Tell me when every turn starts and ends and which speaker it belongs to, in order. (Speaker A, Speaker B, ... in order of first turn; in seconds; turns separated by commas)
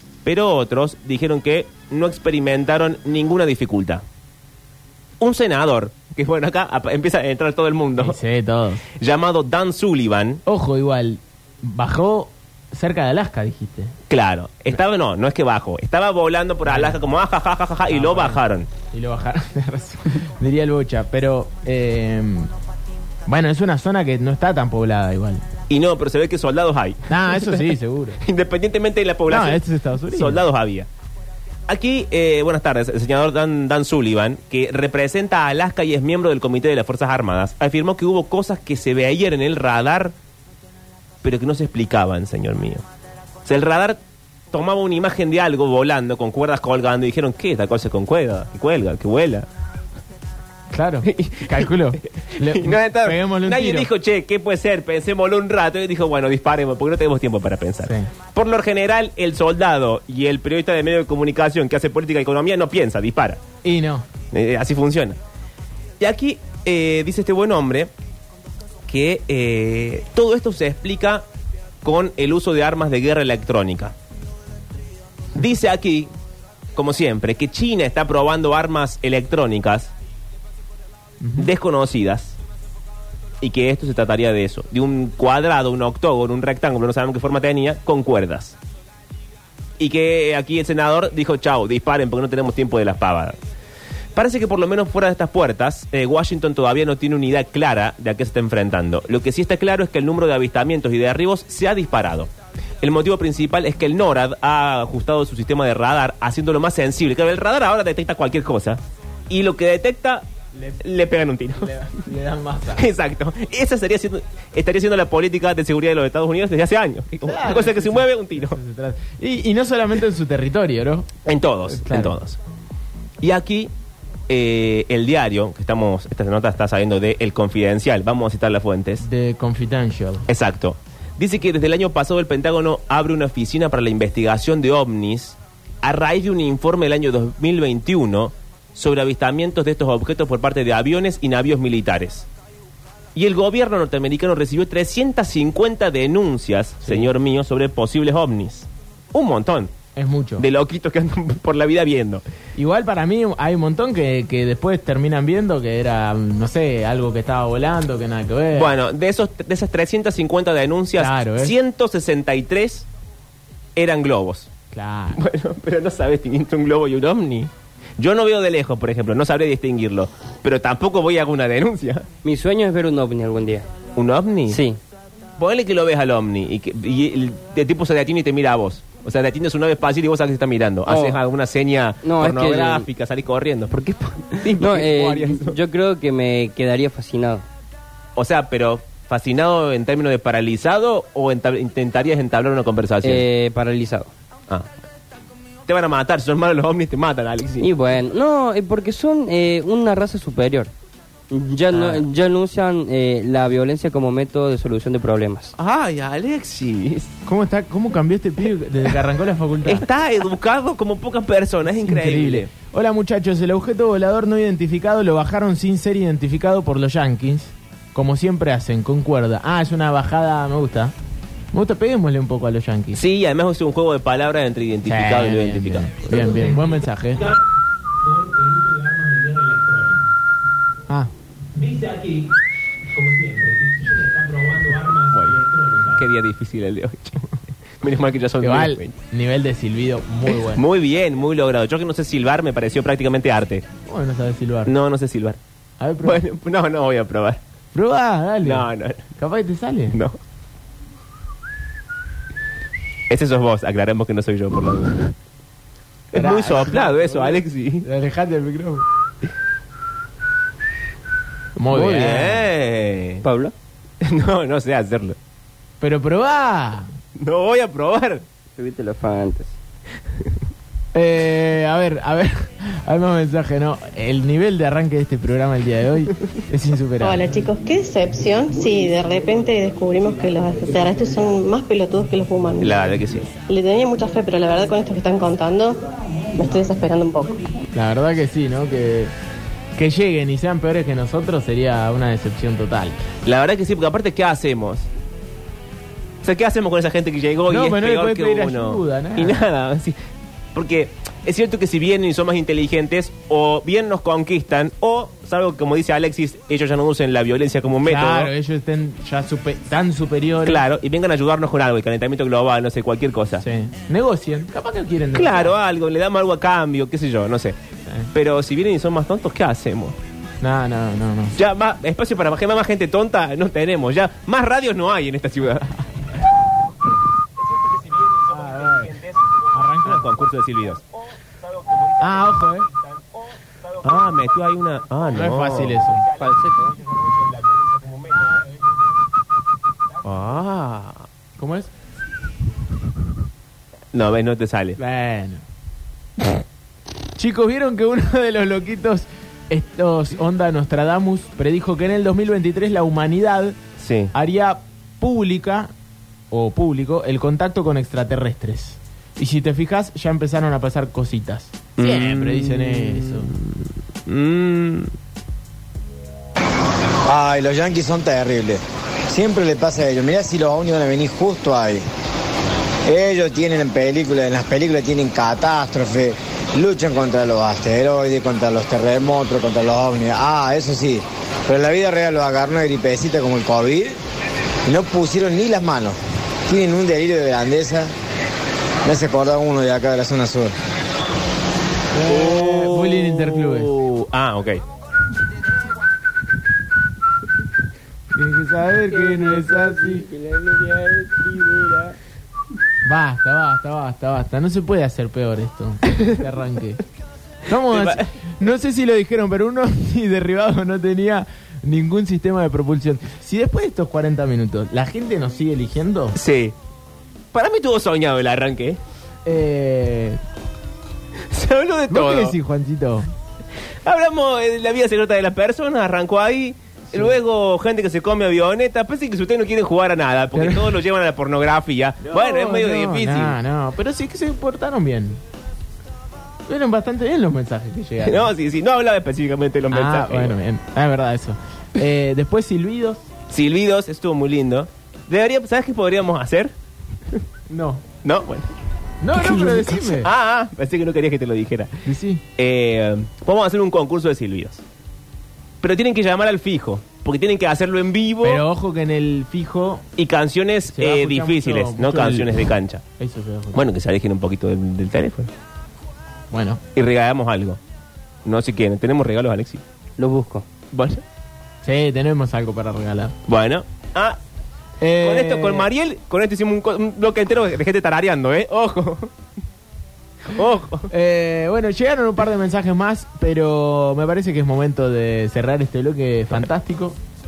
Speaker A: 0.2-4.0, Speaker A: 5.2-8.2, Speaker B: 8.0-8.8, Speaker A: 9.0-10.4, Speaker B: 10.4-13.9, Speaker A: 14.1-18.7, Speaker B: 16.6-17.0, Speaker B: 17.9-18.4, Speaker B: 18.9-22.5, Speaker B: 23.3-25.4, Speaker A: 25.7-30.9, Speaker B: 27.1-28.2, Speaker B: 29.3-30.4, Speaker A: 31.7-40.1, Speaker A: 41.2-42.8, Speaker A: 43.5-44.0, Speaker A: 44.5-49.5, Speaker B: 50.7-53.9, Speaker A: 51.1-63.4, Speaker B: 63.6-64.0, Speaker A: 64.3-65.2, Speaker A: 66.0-67.9, Speaker A: 68.9-71.2, Speaker A: 71.8-73.9, Speaker A: 75.3-76.1, Speaker A: 76.8-79.9, Speaker B: 81.2-81.5, Speaker A: 81.4-82.3, Speaker A: 83.4-88.5, Speaker A: 89.8-93.3, Speaker A: 94.1-102.3, Speaker A: 102.8-110.2, Speaker A: 110.8-111.7, Speaker B: 111.5-112.8, Speaker A: 112.8-118.6, Speaker B: 117.2-121.1, Speaker A: 121.2-122.4, Speaker B: 121.7-122.1, Speaker A: 123.2-123.7, Speaker A: 124.3-129.0, Speaker B: 129.0-130.2, Speaker A: 130.3-142.3, Speaker A: 143.1-149.7, Speaker B: 146.8-147.1, Speaker B: 149.9-150.4, Speaker A: 150.4-152.2, Speaker B: 152.6-158.7, Speaker A: 158.5-162.9, Speaker B: 161.0-161.5, Speaker A: 163.8-164.5, Speaker B: 164.7-165.2, Speaker A: 165.2-172.1, Speaker C: 172.2-173.7, Speaker A: 173.9-174.6, Speaker C: 174.5-174.8, Speaker A: 175.4-185.6, Speaker C: 180.9-181.2, Speaker C: 182.0-182.8, Speaker C: 184.6-187.4, Speaker A: 188.2-193.2, Speaker C: 193.0-194.1, Speaker A: 195.7-197.7, Speaker C: 197.6-200.7, Speaker C: 201.3-205.5, Speaker A: 201.7-202.0, Speaker A: 205.6-207.1, Speaker B: 207.2-209.8, Speaker A: 209.6-212.5, Speaker B: 211.7-220.9, Speaker B: 221.5-223.0, Speaker A: 222.9-227.4, Speaker B: 224.8-227.2, Speaker A: 228.0-230.1, Speaker A: 231.5-232.3, Speaker A: 232.9-238.9, Speaker B: 238.4-240.6, Speaker A: 240.5-243.6, Speaker B: 243.9-244.7, Speaker A: 244.7-245.4, Speaker B: 245.8-246.2, Speaker A: 246.0-247.4, Speaker B: 247.7-248.7, Speaker A: 248.4-249.0, Speaker B: 249.2-250.0, Speaker A: 253.1-255.1, Speaker A: 256.1-257.9, Speaker B: 256.1-258.8, Speaker B: 261.6-262.5, Speaker C: 261.7-262.2, Speaker A: 261.9-263.2, Speaker C: 263.2-263.5, Speaker A: 264.0-265.1, Speaker B: 265.8-266.9, Speaker A: 267.2-268.2, Speaker C: 268.6-269.6, Speaker B: 270.9-277.2, Speaker D: 277.0-282.8, Speaker A: 282.6-283.3, Speaker D: 283.5-285.8, Speaker D: 286.3-287.4, Speaker B: 287.7-289.1, Speaker B: 289.8-293.0, Speaker A: 293.2-294.9, Speaker A: 296.2-300.0, Speaker B: 297.5-299.4, Speaker A: 300.5-308.3, Speaker B: 307.8-310.6, Speaker A: 310.4-313.4, Speaker B: 313.4-315.6, Speaker A: 315.1-317.6, Speaker A: 318.1-320.0, Speaker B: 320.4-321.4, Speaker A: 321.4-325.6, Speaker A: 327.4-338.5, Speaker B: 328.3-328.9, Speaker B: 329.5-330.1, Speaker B: 332.0-332.7, Speaker B: 335.1-336.0, Speaker C: 336.2-336.7, Speaker A: 340.0-341.1, Speaker B: 341.4-341.7, Speaker A: 343.9-344.8, Speaker B: 344.8-345.4, Speaker B: 347.2-353.6, Speaker A: 353.8-354.1, Speaker B: 354.1-355.7, Speaker B: 356.3-363.3, Speaker A: 361.8-364.9, Speaker E: 367.1-371.8, Speaker E: 372.9-384.0, Speaker E: 384.7-387.9, Speaker E: 388.8-390.5, Speaker B: 391.9-393.7, Speaker A: 392.1-394.6, Speaker B: 398.1-400.1, Speaker C: 399.1-401.8, Speaker B: 402.8-406.8, Speaker B: 407.5-416.1, Speaker A: 407.7-408.1, Speaker A: 416.1-416.5, Speaker A: 417.3-418.8, Speaker B: 419.2-420.2, Speaker A: 421.3-422.4, Speaker B: 421.9-423.1, Speaker A: 423.8-433.3, Speaker B: 430.4-430.8, Speaker B: 432.1-435.2, Speaker B: 436.5-438.3, Speaker A: 438.0-440.4, Speaker B: 439.7-443.0, Speaker A: 443.3-446.5, Speaker B: 447.5-447.8, Speaker A: 448.0-448.5, Speaker B: 449.0-450.1, Speaker A: 449.2-451.8, Speaker B: 451.8-452.2, Speaker A: 452.4-454.6, Speaker A: 455.6-458.4, Speaker B: 458.2-459.8, Speaker A: 460.0-462.8, Speaker B: 460.7-462.4, Speaker B: 463.0-463.6, Speaker A: 463.5-465.3, Speaker B: 466.3-466.6, Speaker A: 466.7-467.6, Speaker A: 468.2-469.6, Speaker C: 470.0-470.4, Speaker A: 470.7-471.0, Speaker B: 471.6-473.1, Speaker A: 473.3-474.2, Speaker B: 474.8-475.7, Speaker A: 475.0-479.1, Speaker A: 480.3-480.9, Speaker B: 480.9-487.0